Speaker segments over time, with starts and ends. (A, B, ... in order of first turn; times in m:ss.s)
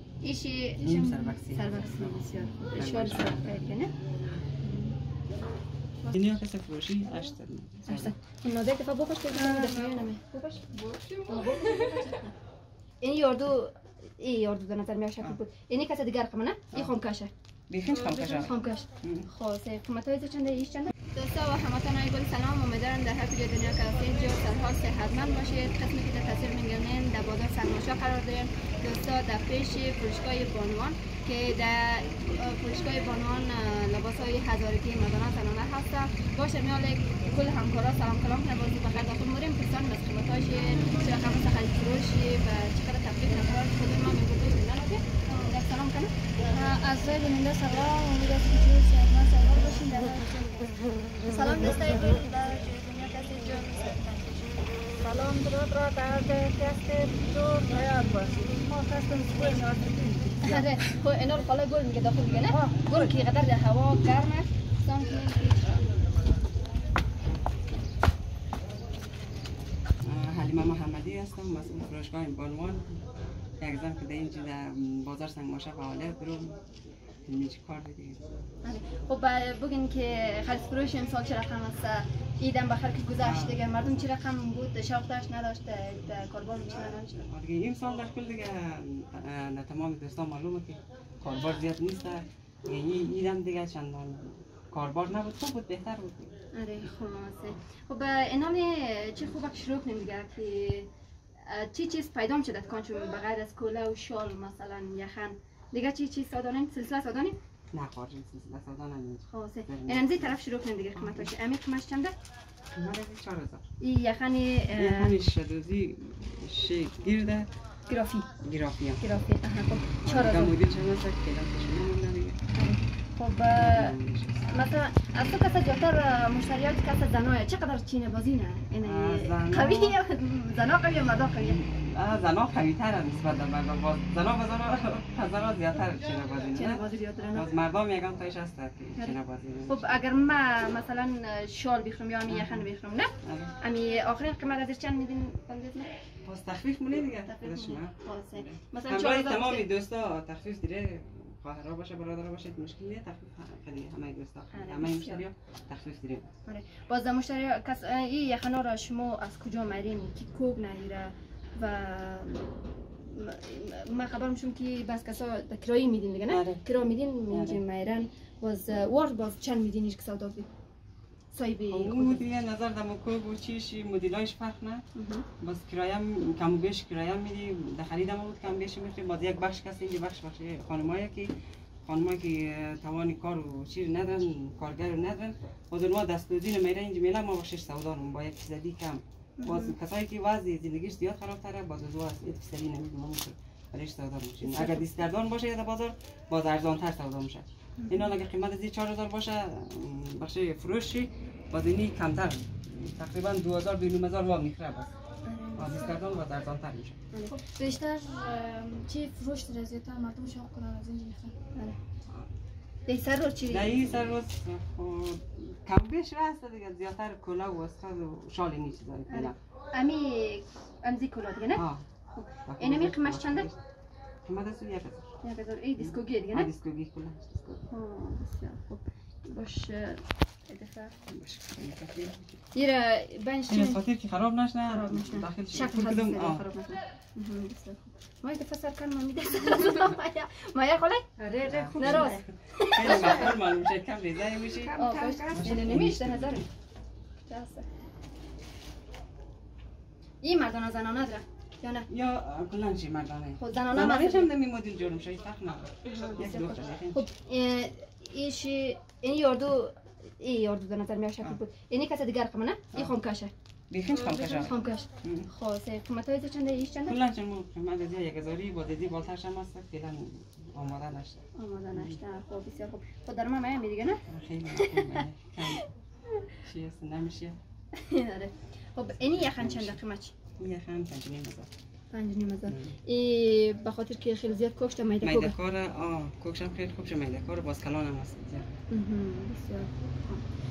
0:00.2-0:03.9 A
0:00.8-0:03.6 B
0:00.8-0:01.4 C
0:06.1-0:08.1 B
0:07.9-0:10.7 A
0:09.3-0:10.1 B
0:10.7-0:12.3 C
0:11.3-0:12.3 A
0:13.0-0:17.3 A
0:17.7-0:19.3 B
0:18.0-0:46.2 A
0:45.3-0:45.5 C
0:46.4-0:50.9 C
0:51.2-0:54.6 A
0:55.0-1:00.5 D
0:55.0-0:55.3 C
0:55.9-1:00.2 C
1:00.4-1:05.8 A
1:10.0-1:13.0 B
1:13.6-1:16.6 B
1:17.2-1:18.3 B
1:18.6-1:27.2 A
1:23.2-1:24.1 B
1:27.2-1:36.3 B
1:36.5-1:40.9 A
1:41.5-1:47.4 A
1:47.7-1:50.4 B
1:49.3-1:52.2 A
1:50.9-1:51.3 B
1:52.8-1:53.6 B
1:53.8-1:55.2 A
1:54.7-1:57.5 B
1:57.9-1:58.3 A
1:58.4-1:59.0 B
1:59.0-2:00.6 A
2:00.0-2:02.4 B
2:02.5-2:04.0 A
2:03.5-2:04.6 B
2:04.5-2:11.6 A
2:08.8-2:10.0 B
2:11.4-2:20.0 B
2:16.5-2:17.5 A
2:19.0-2:25.9 A
2:22.3-2:22.7 B
2:23.2-2:23.6 B
2:26.2-2:36.3 B
2:27.3-2:29.7 A
2:34.5-2:35.2 A
2:36.5-2:50.5 A
2:46.3-2:46.7 B
2:47.3-2:47.6 B
2:51.3-2:52.2 A
2:51.7-2:54.9 B
2:55.0-2:55.3 A
2:55.4-3:01.3 B
3:01.8-3:24.9 B
3:09.4-3:09.8 A
3:14.4-3:14.8 A
3:17.8-3:18.1 A
3:25.2-3:26.0 A
3:25.6-3:27.0 B
3:27.1-3:27.4 A
3:27.3-3:31.4 C
3:31.5-3:31.8 A
3:32.9-3:34.1 A
3:33.5-3:39.4 B
3:39.1-3:43.5 A
3:41.5-3:41.8 B
3:42.5-3:43.6 B
3:44.2-3:45.1 B
3:45.2-3:46.5 A
3:45.8-3:47.6 B
3:47.7-3:50.9 A
3:51.1-3:52.4 B
3:52.5-3:53.8 A
3:53.5-3:56.4 B
3:54.7-4:01.1 A
4:01.2-4:02.1 D
4:01.4-4:01.9 C
4:01.4-4:04.8 B
4:01.7-4:03.4 A
4:04.7-4:05.6 D
4:04.7-4:06.5 A
4:04.7-4:05.4 C
4:05.3-4:06.5 B
4:07.3-4:07.7 A
4:10.2-4:11.9 A
4:11.9-4:17.0 B
4:13.4-4:14.3 A
4:15.8-4:23.3 A
4:23.7-4:25.3 B
4:23.9-4:27.0 A
4:26.9-4:32.0 B
4:31.4-4:34.0 A
4:34.1-4:35.6 B
4:36.4-4:37.4 B
4:37.8-4:40.1 A
4:38.9-4:39.8 B
4:40.4-4:41.5 B
4:41.9-4:45.4 A
4:42.5-4:42.8 B
4:45.0-4:48.5 B
4:48.7-4:50.2 A